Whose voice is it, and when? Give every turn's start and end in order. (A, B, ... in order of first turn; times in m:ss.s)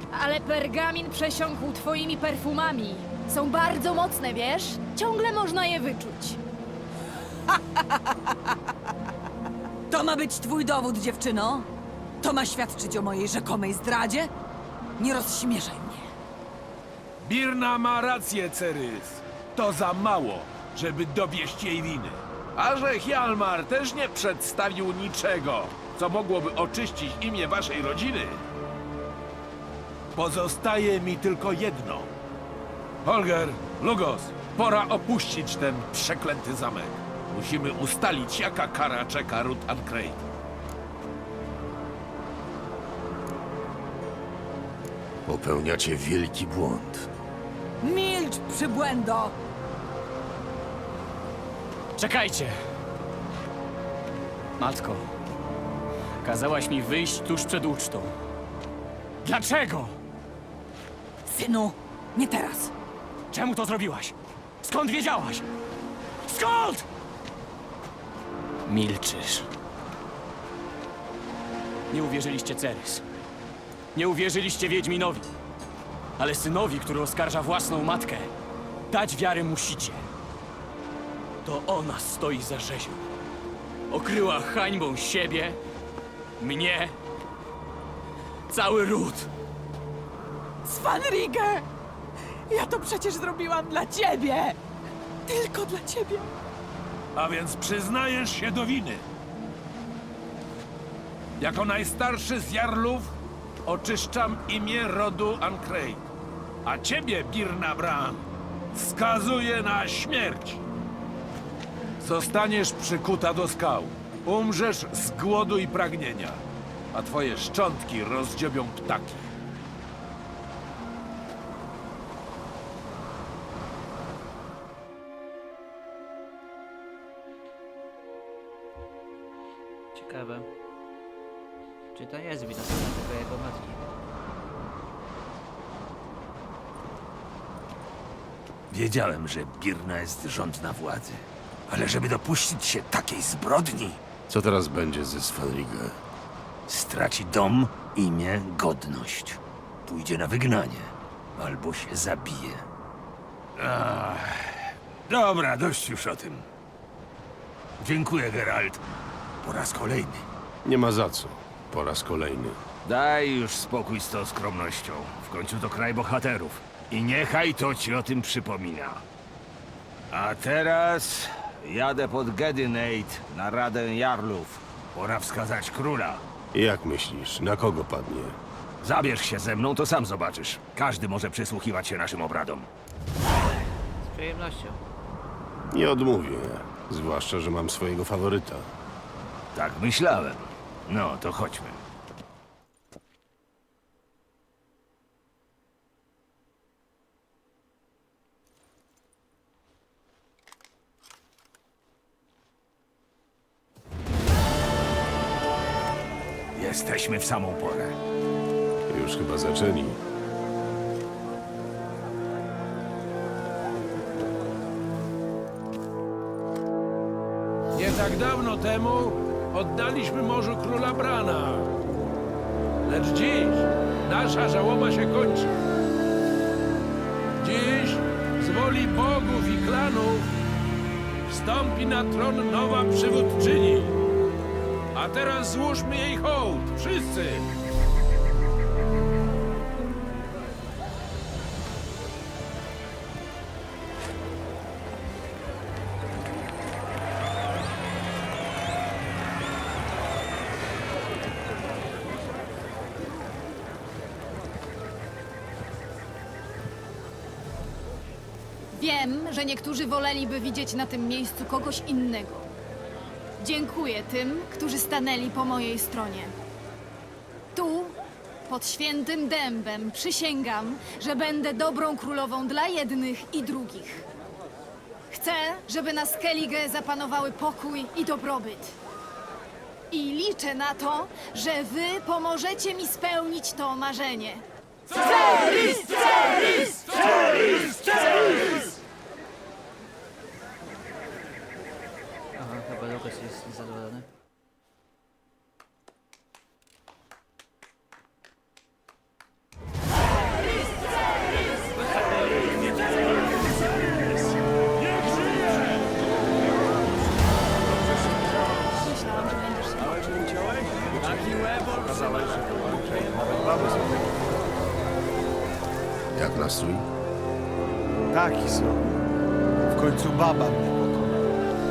0:00.1-0:06.4 A
0:07.5-0:07.8 B
0:09.9-0:11.7 B
0:12.2-0:14.3 B
0:15.0-0:16.1 B
0:17.2-0:28.4 C
0:30.2-0:32.1 C
0:33.0-0:40.2 C
0:45.3-0:47.1 D
0:47.8-0:49.4 B
0:52.0-0:52.6 E
0:54.6-0:55.1 E
0:56.2-0:58.1 E
0:59.2-1:00.0 E
1:01.2-1:02.7 B
1:03.3-1:05.4 E
1:06.2-1:06.9 E
1:08.6-1:09.5 E
1:11.9-1:13.0 E
1:13.9-1:15.3 E
1:16.2-1:18.3 E
1:18.9-1:20.1 E
1:21.4-1:23.0 E
1:23.9-1:25.6 E
1:26.4-1:27.0 E
1:28.5-1:29.3 E
1:30.6-1:31.7 B
1:32.5-1:34.6 B
1:35.3-1:36.3 B
1:37.2-1:39.0 C
1:41.4-1:43.1 C
1:43.7-1:46.0 C
1:46.6-1:50.6 C
1:52.0-1:59.3 C
2:09.9-2:10.5 F
2:11.9-2:13.8 F
2:18.7-2:24.0 G
2:24.3-2:26.0 D
2:26.7-2:32.7 G
2:33.6-2:36.5 G
2:37.8-2:38.8 G
2:39.4-2:40.2 G
2:40.6-2:42.6 D
2:42.8-2:49.0 G
2:50.1-2:56.2 G
2:56.5-2:58.4 D
2:58.8-3:02.7 G
3:04.0-3:04.8 F
3:05.7-3:08.7 D
3:09.5-3:11.8 G
3:26.6-3:28.0 G
3:28.9-3:30.0 D
3:37.7-3:41.7 C
3:42.8-3:45.5 C
3:47.4-3:50.3 C
3:51.3-3:54.0 C
3:54.9-3:57.5 C
4:18.7-4:22.5 A
4:23.4-4:26.4 A
4:27.5-4:34.1 A
4:35.1-4:38.8 A
4:39.9-4:48.4 A
4:52.4-4:54.1 F
5:08.7-5:10.3 A
5:10.9-5:14.2 H
5:16.1-5:16.9 D
5:18.1-5:18.9 H
5:19.7-5:21.4 H